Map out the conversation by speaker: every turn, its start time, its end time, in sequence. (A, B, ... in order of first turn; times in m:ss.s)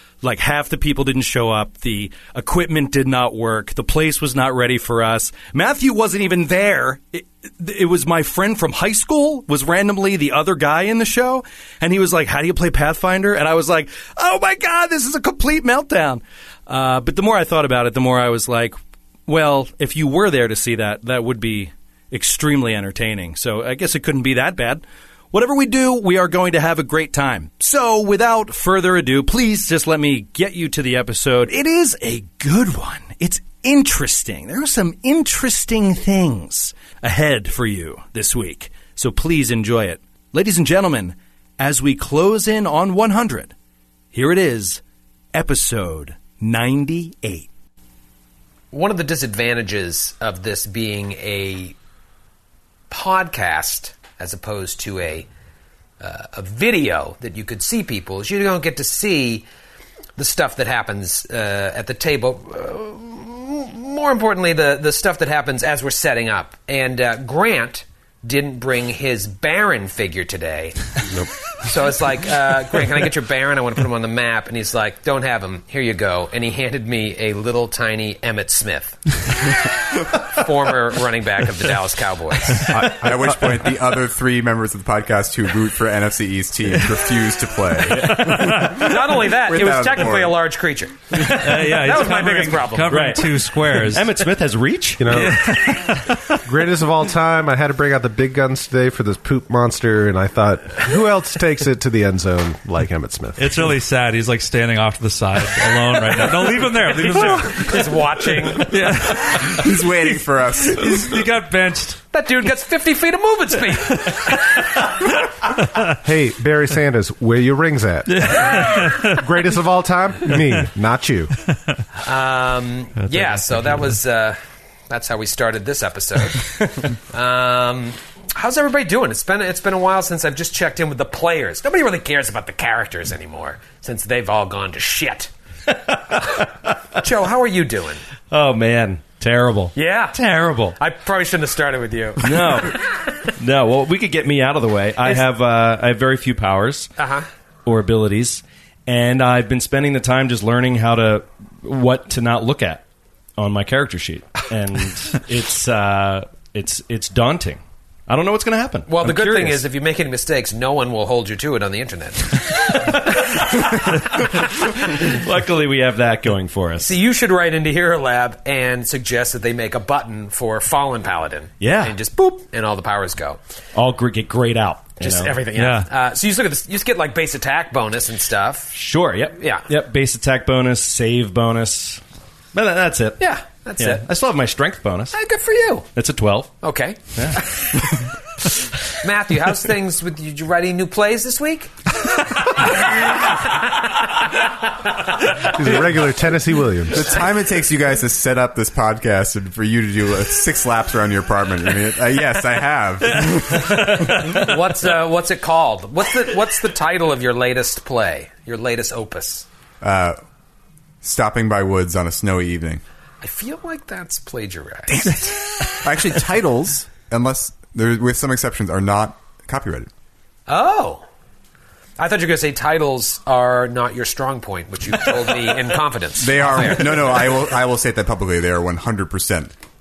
0:00.2-0:43.5 A
0:44.1-0:44.8 A
0:45.3-0:47.5 A
0:48.7-0:51.7 B
0:52.9-0:55.3 B
0:56.0-0:59.4 B
1:00.2-1:10.8 B
1:11.5-1:19.1 B
1:20.2-1:22.8 B
1:22.7-1:23.7 C
1:22.7-1:30.4 D
1:27.9-1:28.9 E
1:28.6-1:33.0 B
1:31.2-1:34.2 E
1:32.9-1:35.1 F
1:35.0-1:35.9 C
1:35.1-1:36.2 E
1:36.4-1:43.7 C
1:43.4-1:47.9 E
1:47.0-1:48.7 B
1:48.5-1:49.9 E
1:49.1-1:51.2 D
1:50.8-1:52.0 E
1:52.1-1:54.4 B
1:56.0-2:01.3 C
1:58.1-1:59.2 E
2:02.0-2:15.3 B
2:03.0-2:03.9 E
2:16.2-2:18.0 B
2:18.3-2:19.7 F
2:19.7-2:20.2 B
2:20.2-2:20.8 E
2:20.8-2:22.7 B
2:22.2-2:26.9 F
2:27.0-2:27.2 B
2:27.6-2:32.8 F
2:33.4-2:39.6 F
2:38.9-2:42.7 B
2:44.1-2:47.0 F
2:46.8-2:53.4 B
2:51.6-2:52.0 F
2:53.7-2:55.4 F
2:55.0-2:58.7 B
2:55.5-2:55.9 E
2:58.7-3:02.0 F
2:59.4-2:59.7 B
3:02.5-3:03.2 F
3:03.2-3:04.0 B
3:03.8-3:05.2 F
3:05.1-3:05.9 B
3:05.9-3:06.5 F
3:06.6-3:07.8 B
3:07.1-3:07.4 F
3:08.8-3:11.9 B
3:15.4-3:17.1 C
3:16.9-3:24.5 D
3:23.2-3:24.3 E
3:24.2-3:29.4 B
3:29.8-3:30.2 D
3:31.0-3:32.8 D
3:33.2-3:35.2 B
3:34.9-3:39.9 D
3:40.5-3:41.0 B
3:42.0-3:47.3 B
3:46.2-3:49.5 D